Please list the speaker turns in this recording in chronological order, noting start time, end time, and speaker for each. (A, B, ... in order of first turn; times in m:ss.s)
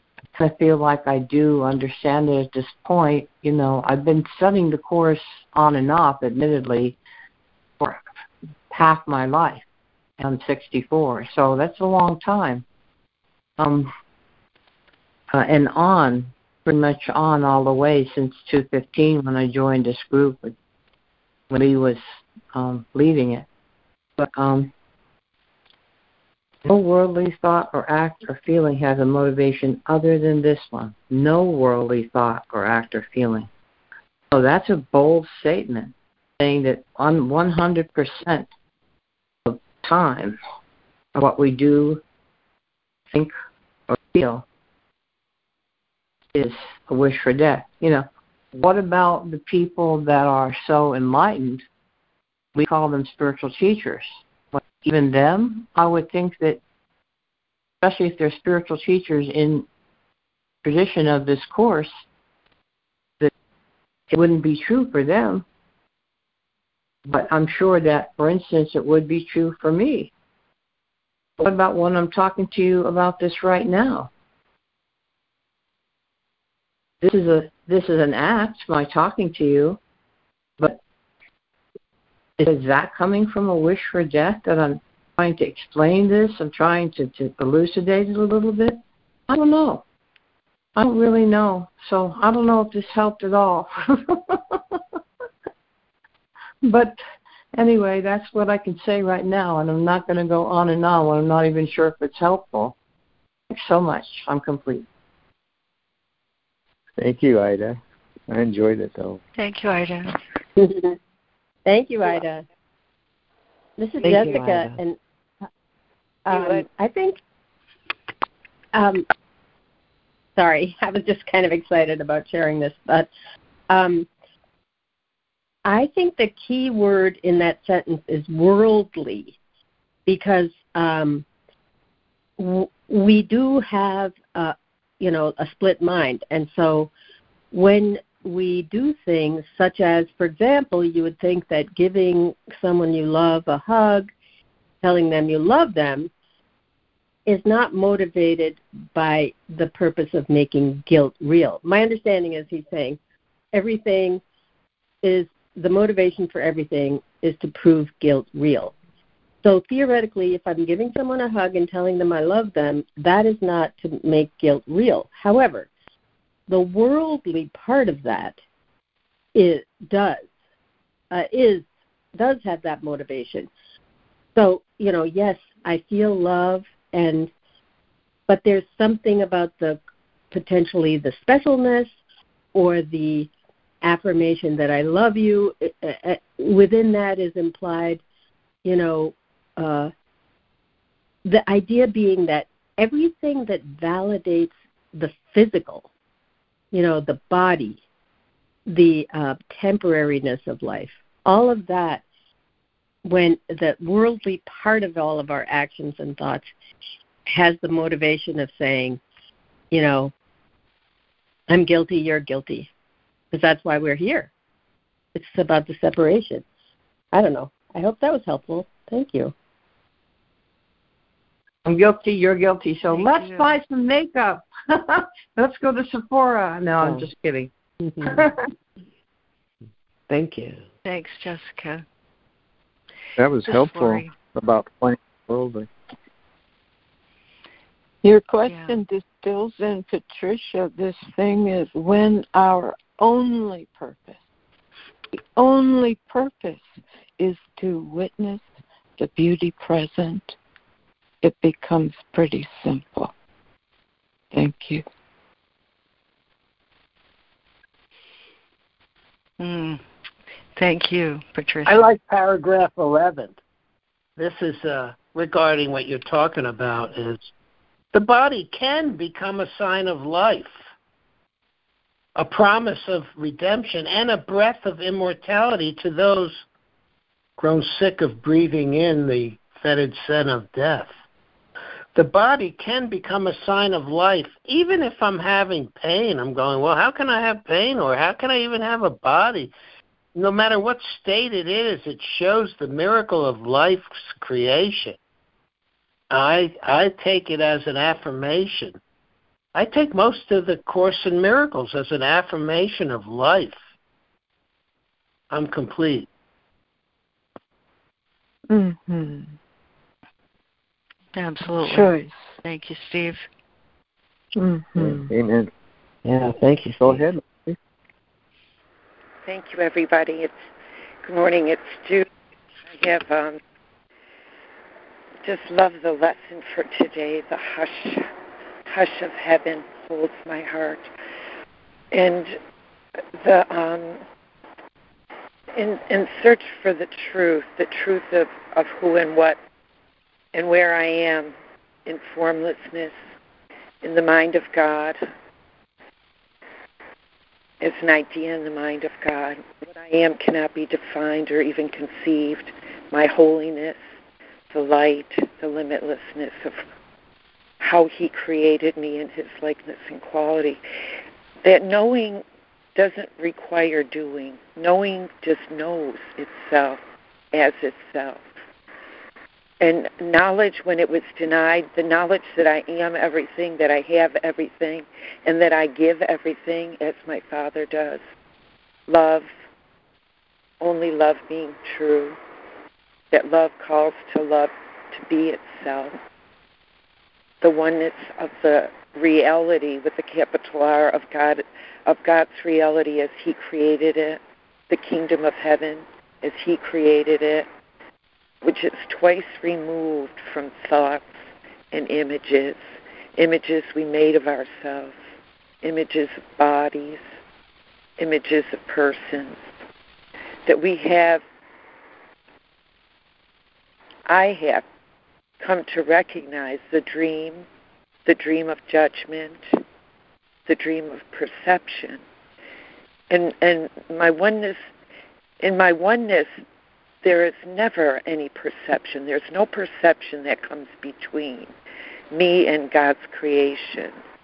0:00.3-0:07.0 A
0:07.8-0:08.0 A
0:08.7-0:09.6 A
0:10.2-0:12.6 A
0:13.6-0:13.9 A
0:15.3-0:20.5 A
0:21.5-0:22.0 A
0:22.5-0:23.4 A
0:24.2-0:24.7 A
0:26.6-0:33.5 A
0:34.3-0:38.5 A
0:39.4-0:40.4 A
0:41.1-0:42.0 A
0:43.9-0:44.4 A
0:46.3-0:51.6 A
0:52.5-0:56.6 A
0:57.8-0:59.6 A
1:00.6-1:01.9 A
1:04.1-1:05.4 A
1:07.0-1:10.1 A
1:11.4-1:14.1 A
1:17.0-1:19.8 A
1:22.4-1:28.8 A
1:29.3-1:29.8 A
1:30.8-1:34.8 A
1:36.6-1:37.0 A
1:37.5-1:42.7 A
1:43.5-1:44.8 A
1:47.0-1:49.2 B
1:49.3-1:50.2 C
1:50.6-1:50.9 D
1:51.6-1:52.4 D
1:53.8-1:55.0 D
1:54.0-1:54.8 E
1:56.2-1:57.2 D
1:56.3-1:56.6 F
1:58.7-1:59.1 D
2:00.4-2:03.1 D
2:03.7-2:04.1 D
2:05.6-2:09.4 D
2:10.0-2:11.2 D
2:12.4-2:16.9 D
2:17.5-2:24.1 D
2:24.8-2:26.1 D
2:27.2-2:33.0 D
2:33.5-2:34.2 D
2:35.0-2:38.7 D
2:39.4-2:45.7 D
2:46.5-2:48.4 D
2:49.3-2:50.3 D
2:51.1-2:53.5 D
2:54.3-2:57.3 D
2:58.3-2:59.8 D
3:00.3-3:01.9 D
3:02.5-3:03.3 D
3:03.8-3:08.0 D
3:08.6-3:09.9 D
3:11.2-3:15.9 D
3:16.7-3:17.8 D
3:18.7-3:22.0 D
3:23.0-3:26.5 D
3:27.2-3:29.0 D
3:29.7-3:30.1 D
3:31.5-3:32.7 D
3:33.3-3:34.3 D
3:35.1-3:36.4 D
3:37.1-3:39.3 D
3:41.6-3:48.3 A
3:42.9-3:43.6 C
3:50.1-3:50.6 E
3:50.8-3:51.8 C
3:53.2-3:55.7 B
3:53.4-3:54.1 C
3:58.0-4:04.2 G
3:58.4-3:58.8 C
4:05.1-4:08.4 G
4:09.0-4:10.4 G
4:11.2-4:13.1 G
4:14.3-4:14.8 G
4:19.4-4:19.8 C
4:20.6-4:21.9 C
4:21.6-4:23.4 H
4:24.2-4:27.3 H
4:27.9-4:30.7 H
4:32.2-4:36.4 H
4:37.4-4:41.0 H
4:41.9-4:49.5 H
4:50.1-4:55.0 H
4:56.1-4:58.8 H
4:59.5-5:03.6 H
5:05.3-5:06.1 H
5:08.5-5:09.4 G
5:11.1-5:13.2 C
5:11.4-5:12.4 G
5:14.4-5:14.7 A
5:14.8-5:15.5 B
5:16.0-5:17.1 E
5:16.8-5:17.5 B
5:19.2-5:20.5 F
5:21.0-5:22.1 F
5:22.6-5:23.4 F
5:25.2-5:28.1 F
5:28.7-5:30.9 F
5:31.9-5:32.4 F
5:33.2-5:34.0 F
5:35.5-5:39.4 F
5:40.3-5:41.3 F
5:41.8-5:43.0 F
5:43.8-5:45.0 F
5:47.6-5:53.9 F
5:54.5-5:56.6 F
5:57.6-6:00.6 F
6:01.4-6:02.2 F
6:02.7-6:06.8 F
6:07.3-6:08.3 F
6:09.6-6:18.0 F
6:18.9-6:19.3 F
6:20.6-6:22.2 F
6:23.1-6:26.0 F
6:27.4-6:37.5 F
6:38.4-6:47.1 F
6:48.0-6:49.5 F
6:50.4-6:51.2 F
6:54.1-6:54.6 F
6:55.4-6:57.4 F
6:58.0-6:59.6 F
7:00.5-7:02.0 F
7:03.1-7:04.7 F
7:05.4-7:06.4 F
7:07.0-7:11.5 F
7:12.1-7:14.0 F